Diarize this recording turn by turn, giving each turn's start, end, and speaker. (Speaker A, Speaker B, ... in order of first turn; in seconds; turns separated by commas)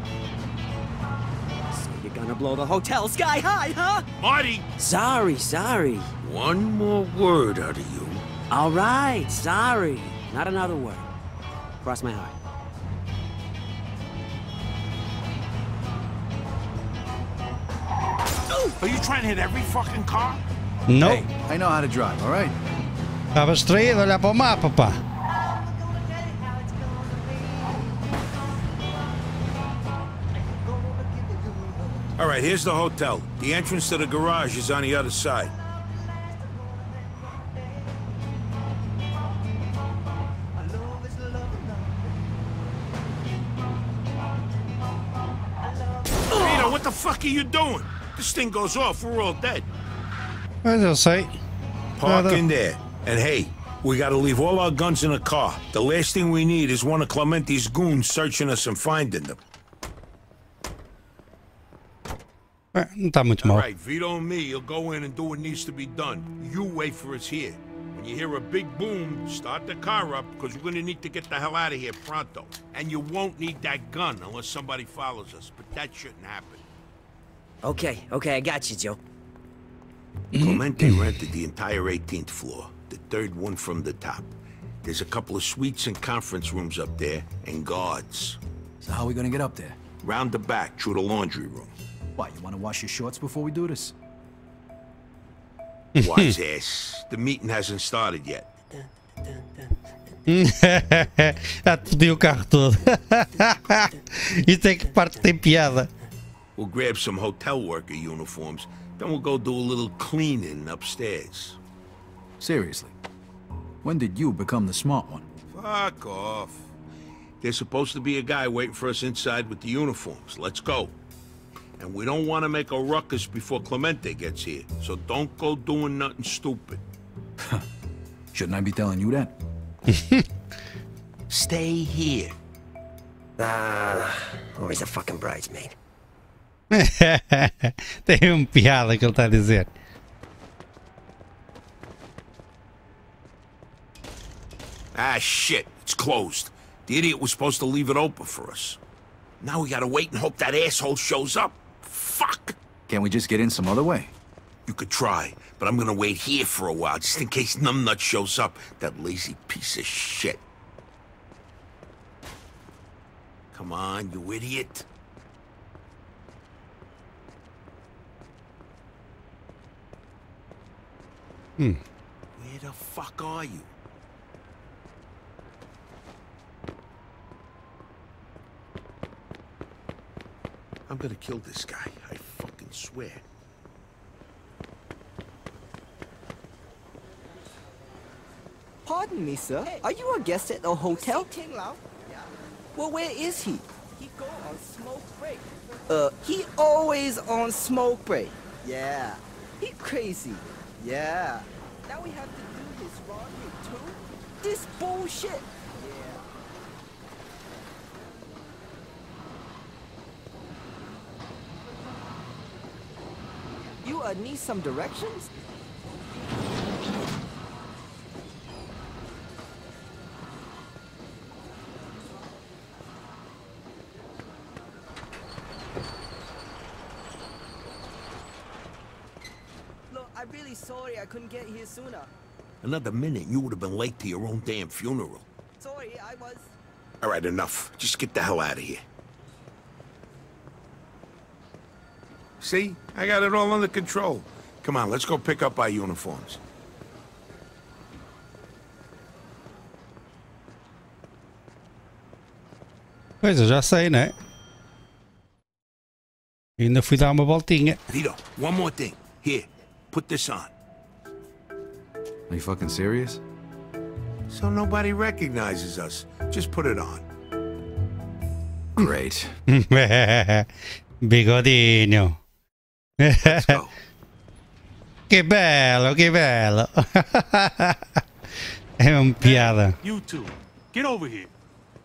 Speaker A: 1.7-4.0, Speaker B: 4.2-4.7, Speaker A: 4.8-6.1, Speaker B: 6.2-8.2, Speaker A: 8.5-11.1, Speaker A: 11.8-12.3, Speaker B: 18.8-20.4, Speaker C: 20.9-21.2, Speaker D: 21.0-22.6, Speaker C: 23.4-25.0, Speaker B: 32.2-35.5, Speaker B: 46.3-49.7, Speaker C: 50.6-51.4, Speaker B: 52.0-59.4, Speaker C: 52.0-52.4, Speaker C: 62.8-63.7, Speaker B: 63.4-76.6, Speaker A: 77.6-79.0, Speaker B: 80.4-84.3, Speaker B: 84.8-88.4, Speaker D: 88.8-89.8, Speaker B: 90.0-91.7, Speaker D: 92.2-94.0, Speaker C: 96.0-96.3, Speaker B: 96.0-98.5, Speaker C: 100.3-105.9, Speaker B: 106.6-111.6, Speaker D: 112.4-113.0, Speaker D: 113.8-115.3, Speaker B: 115.5-116.7, Speaker B: 117.4-120.9, Speaker B: 121.8-126.8, Speaker D: 128.3-129.3, Speaker C: 129.9-130.3, Speaker B: 131.3-132.3, Speaker A: 133.4-135.7, Speaker C: 136.7-139.7, Speaker B: 144.9-148.8, Speaker B: 149.4-152.6, Speaker D: 152.9-154.1, Speaker B: 154.7-160.4, Speaker B: 163.5-164.9, Speaker B: 172.4-173.7, Speaker B: 180.9-183.2, Speaker E: 188.9-206.2, Speaker E: 213.8-215.3, Speaker E: 229.9-232.1, Speaker B: 232.6-235.2, Speaker E: 235.6-236.5, Speaker B: 237.0-238.8, Speaker B: 242.4-246.4, Speaker C: 253.2-254.1, Speaker C: 256.6-257.8, Speaker B: 257.9-260.5, Speaker D: 262.3-263.2, Speaker B: 264.3-267.1, Speaker D: 268.8-269.3, Speaker C: 269.5-270.5, Speaker C: 271.0-272.2, Speaker C: 273.0-273.6, Speaker B: 273.2-273.7, Speaker C: 275.1-277.8, Speaker C: 278.8-279.8, Speaker F: 279.2-281.3